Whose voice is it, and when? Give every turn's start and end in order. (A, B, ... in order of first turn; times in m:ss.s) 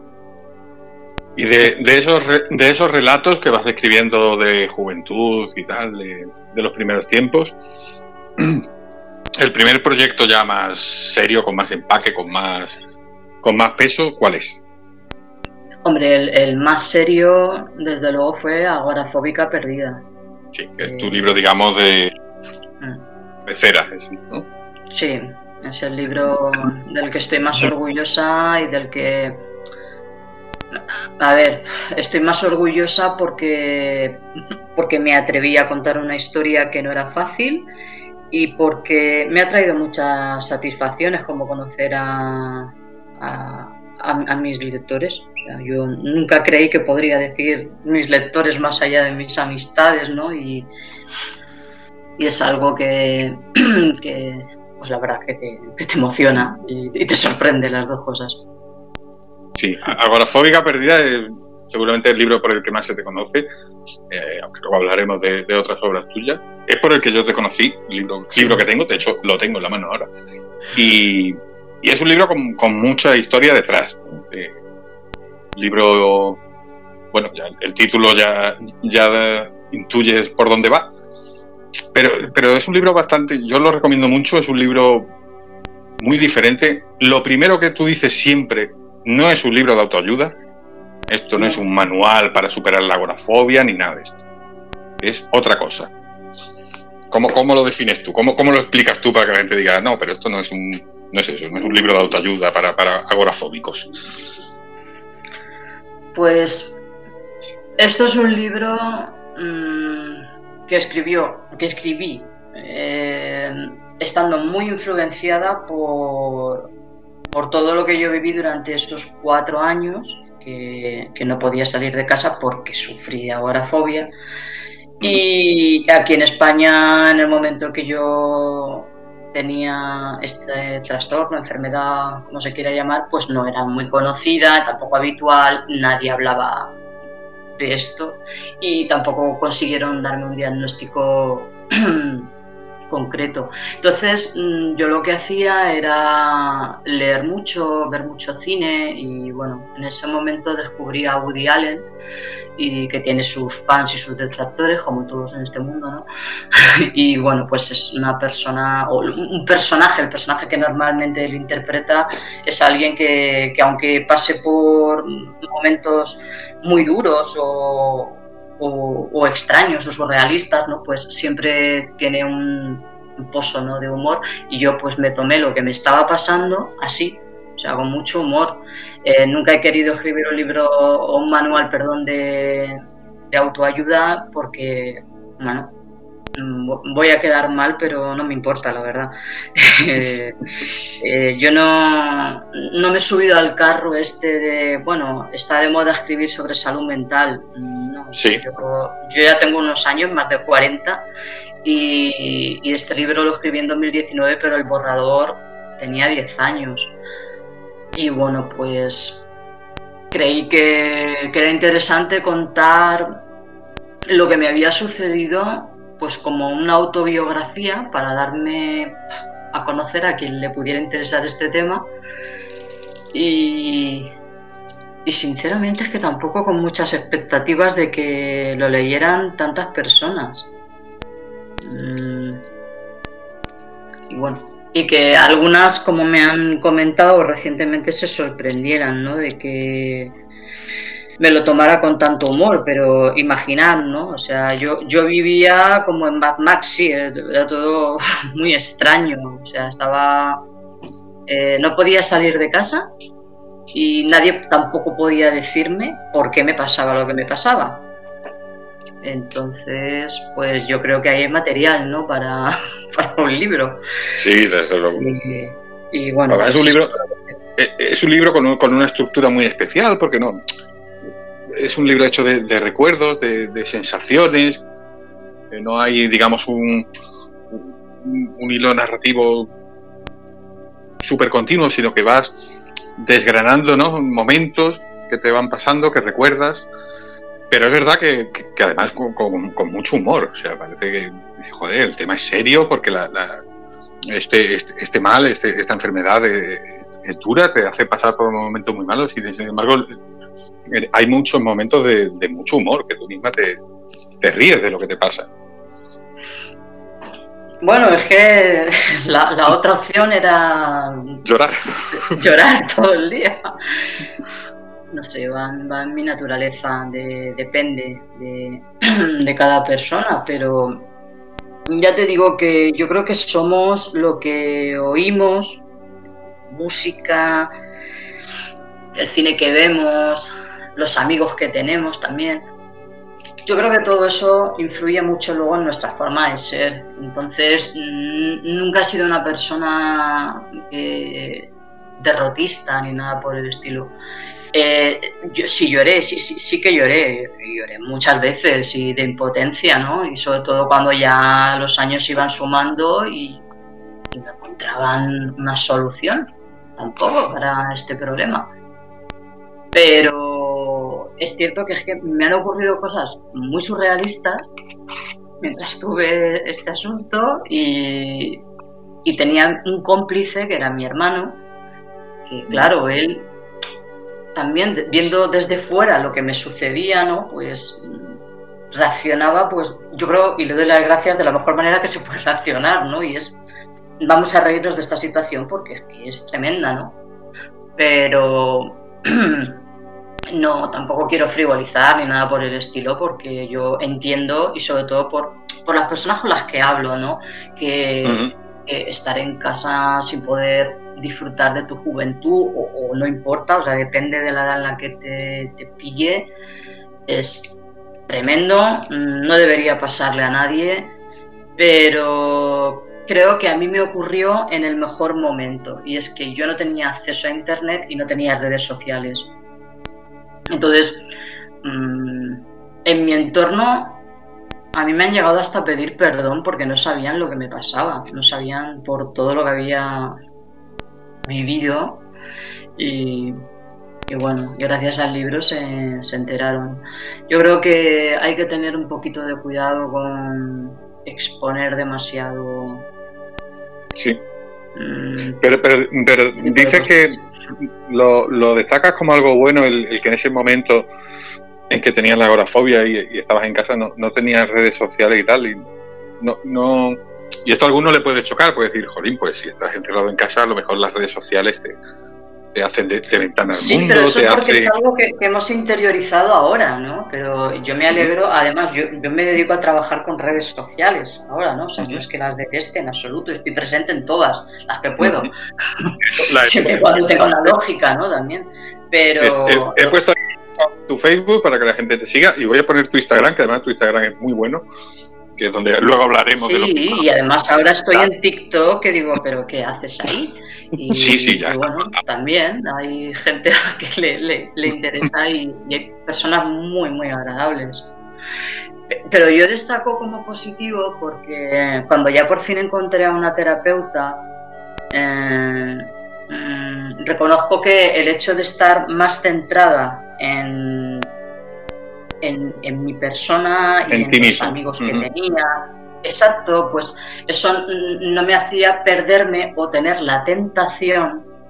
0:01.4-0:07.6 A
0:08.4-0:08.7 A
0:09.4-0:12.8 A
0:13.4-0:14.6 A
0:15.8-0:20.0 B
0:20.5-0:22.1 A
0:20.8-0:21.4 B
0:23.5-0:24.5 A
0:24.9-0:29.4 B
0:31.2-0:34.2 B
0:34.8-0:37.7 B
0:38.3-0:50.7 B
0:52.2-0:58.4 B
0:59.6-1:03.5 A
1:04.1-1:10.1 A
1:08.3-1:08.6 B
1:10.8-1:14.6 A
1:15.6-1:16.4 A
1:17.1-1:20.9 A
1:21.9-1:25.1 A
1:26.0-1:30.4 A
1:31.1-1:34.2 A
1:35.0-1:35.9 A
1:37.1-1:43.9 A
1:46.1-1:46.8 B
1:47.8-1:56.7 B
1:57.3-2:04.1 B
2:05.0-2:16.8 B
2:17.6-2:22.3 B
2:22.9-2:31.9 B
2:32.6-3:05.7 B
3:06.4-3:10.4 B
3:11.0-3:21.0 B
3:18.2-3:18.4 A
3:21.6-3:27.0 B
3:28.0-3:29.3 B
3:30.1-3:33.2 B
3:34.1-3:39.0 B
3:39.5-3:41.9 B
3:43.1-3:44.1 B
3:45.1-3:50.5 B
3:51.6-3:52.4 B
3:54.1-4:00.1 B
4:01.2-4:10.4 B
4:11.3-4:12.9 B
4:13.7-4:17.9 B
4:19.0-4:23.8 B
4:24.2-4:25.0 A
4:25.0-4:27.4 B
4:26.3-4:27.0 A
4:27.6-4:30.4 A
4:31.5-4:34.6 A
4:35.5-4:36.9 A
4:37.5-4:39.5 A
4:41.0-4:42.4 A
4:43.0-4:46.7 A
4:47.5-4:53.4 A
4:54.1-5:00.0 A
5:00.7-5:03.6 A
5:04.2-5:05.3 A
5:07.6-5:11.2 B
5:11.2-5:12.1 A
5:11.9-5:13.5 B
5:14.9-5:20.9 B
5:21.7-5:25.6 B
5:26.5-5:27.5 B
5:29.0-5:32.5 B
5:33.4-5:44.0 B
5:44.5-5:53.4 B
5:54.1-5:58.5 B
5:59.7-6:04.5 B
6:05.4-6:08.5 B
6:09.0-6:11.4 B
6:12.3-6:13.3 B
6:14.4-6:18.2 B
6:18.7-6:23.4 B
6:24.0-6:27.0 B
6:27.8-6:29.6 B
6:30.3-6:46.3 B
6:38.0-6:38.3 A
6:47.1-6:50.9 B
6:51.6-6:59.3 B
7:00.5-7:01.0 B
7:01.6-7:04.0 B
7:04.8-7:10.2 B
7:11.2-7:12.1 B
7:12.8-7:13.4 B
7:14.1-7:22.9 B
7:24.8-7:25.4 B
7:25.4-7:27.2 A
7:26.4-7:27.2 B
7:27.9-7:30.9 A
7:31.7-7:41.8 A
7:42.6-7:44.7 A
7:43.5-8:00.0 B
7:55.0-7:55.3 A
7:56.0-7:57.5 A
7:59.2-8:04.6 A
8:05.4-8:07.1 A
8:06.3-8:17.9 B
8:10.9-8:12.0 A
8:18.9-8:24.3 B
8:24.9-8:31.1 B
8:32.2-8:41.3 B
8:33.9-8:35.1 A